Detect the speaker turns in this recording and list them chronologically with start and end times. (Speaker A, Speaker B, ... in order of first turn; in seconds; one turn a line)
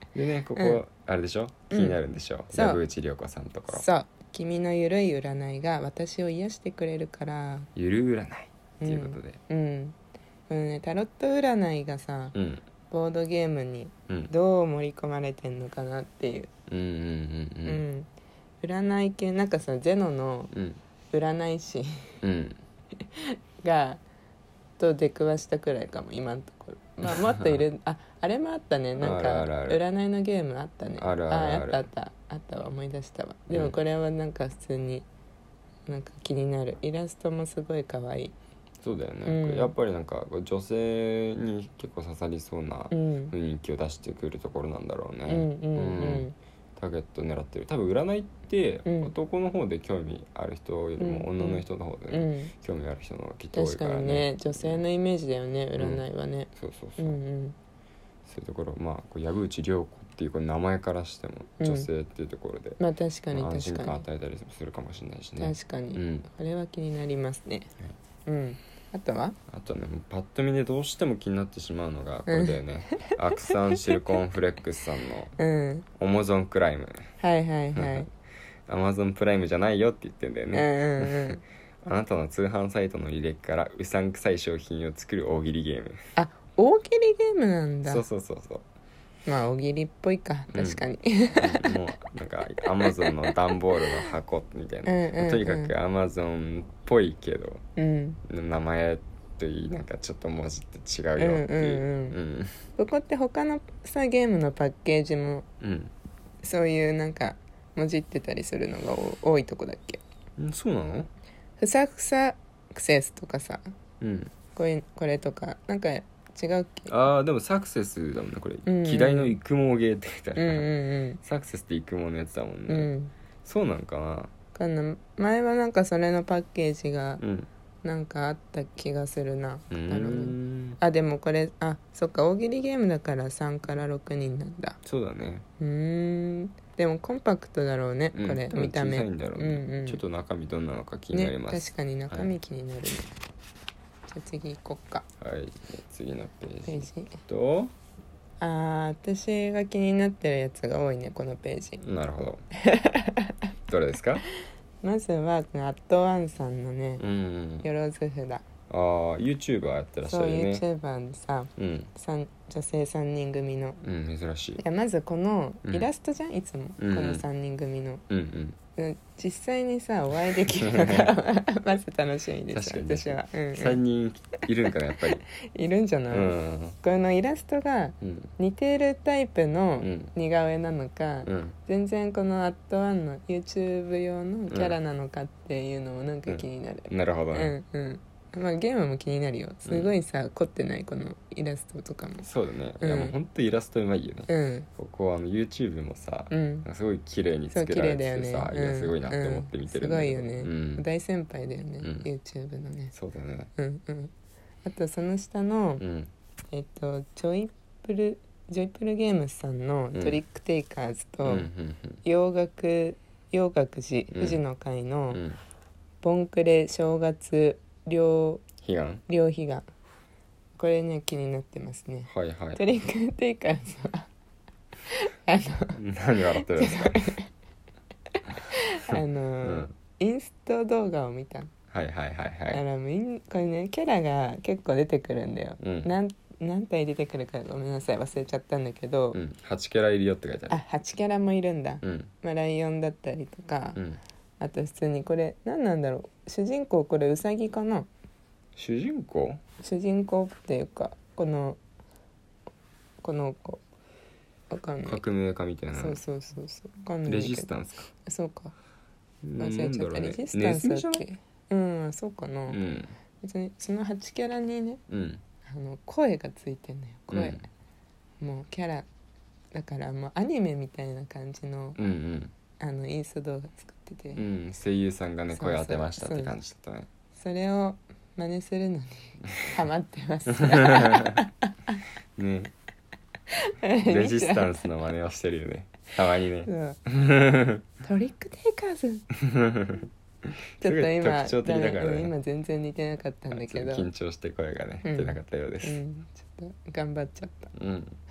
Speaker A: 0.1-3.9
Speaker B: 0.6-0.8
Speaker B: 1.7-2.0
Speaker B: 2.5-2.8
Speaker B: 3.7-7.7
Speaker A: 7.7-9.4
Speaker B: 8.8-9.9
Speaker B: 10.5-16.5
Speaker A: 12.3-12.7
Speaker A: 14.1-14.3
Speaker A: 16.7-17.8
Speaker B: 17.6-18.1
Speaker B: 18.6-20.5
Speaker A: 20.5-20.8
Speaker B: 21.1-22.2
Speaker A: 22.2-22.6
Speaker B: 23.0-24.0
Speaker B: 24.8-35.1
Speaker A: 27.0-27.6
Speaker A: 29.0-29.8
Speaker A: 31.0-31.9
Speaker A: 33.5-33.8
Speaker B: 35.9-38.3
Speaker A: 38.8-54.8
Speaker B: 39.2-39.7
Speaker B: 42.9-43.3
Speaker B: 45.3-46.3
Speaker B: 48.8-49.1
Speaker B: 51.0-52.5
Speaker B: 53.5-57.5
Speaker A: 55.8-57.2
Speaker A: 58.2-62.8
Speaker B: 61.6-61.9
Speaker B: 62.8-64.0
Speaker A: 63.3-66.3
Speaker B: 65.4-67.7
Speaker B: 68.2-69.4
Speaker A: 69.5-75.3
Speaker B: 72.3-74.2
Speaker B: 75.4-75.8
Speaker A: 75.9-77.1
Speaker B: 77.2-78.1
Speaker A: 77.7-78.1
Speaker A: 78.7-86.0
Speaker B: 80.5-81.4
Speaker B: 86.2-88.0
Speaker A: 87.8-88.7
Speaker B: 89.2-91.8
Speaker A: 90.5-97.6
Speaker B: 92.8-93.4
Speaker B: 94.8-95.7
Speaker B: 97.8-98.2
Speaker A: 98.2-102.6
Speaker B: 101.2-102.2
Speaker B: 102.8-105.5
Speaker A: 105.6-105.9
Speaker B: 106.4-110.0
Speaker A: 110.4-111.1
Speaker B: 111.6-113.6
Speaker A: 114.0-114.4
Speaker B: 114.5-116.9
Speaker A: 116.9-122.9
Speaker B: 118.7-119.4
Speaker B: 120.3-121.2
Speaker B: 122.7-123.1
Speaker A: 123.4-124.3
Speaker B: 124.5-127.2
Speaker A: 127.2-127.5
Speaker B: 127.8-134.8
Speaker A: 129.7-130.8
Speaker A: 134.8-135.4
Speaker B: 135.6-140.0
Speaker A: 138.1-142.3
Speaker B: 141.1-143.1
Speaker B: 144.1-145.1
Speaker A: 145.2-147.7
Speaker B: 146.7-147.1
Speaker B: 148.4-151.8
Speaker A: 151.8-152.4
Speaker B: 152.6-153.4
Speaker A: 153.7-154.2
Speaker B: 154.8-157.0
Speaker A: 157.0-157.7
Speaker B: 157.6-158.5
Speaker A: 158.7-160.6
Speaker B: 160.0-163.8
Speaker A: 161.6-161.9
Speaker A: 163.8-164.6
Speaker B: 164.6-168.0
Speaker A: 166.8-167.2
Speaker A: 168.1-168.6
Speaker B: 168.8-173.8
Speaker A: 170.6-171.1
Speaker A: 172.5-175.2
Speaker B: 175.2-192.2
Speaker A: 176.1-176.8
Speaker A: 178.0-178.3
Speaker A: 179.8-180.1
Speaker A: 181.2-181.6
Speaker A: 184.5-184.8
Speaker A: 186.2-187.5
Speaker A: 189.6-189.9
Speaker A: 192.2-200.8
Speaker B: 192.8-193.1
Speaker B: 194.3-194.7
Speaker B: 196.3-196.7
Speaker B: 197.5-202.9
Speaker A: 201.8-202.1
Speaker A: 202.9-203.5
Speaker B: 203.6-204.1
Speaker B: 204.6-205.8
Speaker A: 205.8-206.1
Speaker B: 206.5-211.5
Speaker A: 209.9-210.2
Speaker A: 211.2-212.0
Speaker B: 212.0-215.2
Speaker A: 214.1-214.4
Speaker A: 215.1-215.4
Speaker B: 216.0-218.5
Speaker A: 218.5-219.0
Speaker B: 219.1-219.7
Speaker B: 220.5-224.1
Speaker A: 222.1-222.6
Speaker B: 224.8-227.3
Speaker A: 225.7-227.2
Speaker B: 228.1-231.5
Speaker A: 228.9-229.8
Speaker A: 231.7-232.6
Speaker B: 232.5-239.2
Speaker A: 235.6-235.9
Speaker A: 239.1-240.6
Speaker B: 240.5-243.8
Speaker A: 241.8-242.1
Speaker A: 243.7-244.0
Speaker B: 244.4-247.9
Speaker A: 248.6-249.4
Speaker B: 249.6-251.6
Speaker B: 253.0-253.6
Speaker B: 254.5-255.0
Speaker A: 254.8-256.0
Speaker B: 255.7-258.5
Speaker A: 257.0-257.9
Speaker A: 259.2-261.1
Speaker B: 259.4-262.6
Speaker A: 262.5-262.9
Speaker B: 263.2-264.8
Speaker A: 264.9-265.2
Speaker B: 265.4-267.4
Speaker A: 267.1-267.5
Speaker B: 268.2-268.9
Speaker B: 269.5-271.8
Speaker A: 271.8-272.3
Speaker B: 272.6-274.2
Speaker A: 274.1-276.9
Speaker B: 275.3-276.3
Speaker B: 277.1-281.8
Speaker A: 279.2-279.6
Speaker A: 280.3-281.2
Speaker A: 282.2-282.5
Speaker B: 283.3-284.6
Speaker A: 283.8-287.6
Speaker B: 286.4-286.8
Speaker B: 287.8-289.1
Speaker A: 289.1-292.1
Speaker B: 290.6-293.9
Speaker A: 293.3-295.8
Speaker B: 294.8-297.5
Speaker A: 297.5-298.0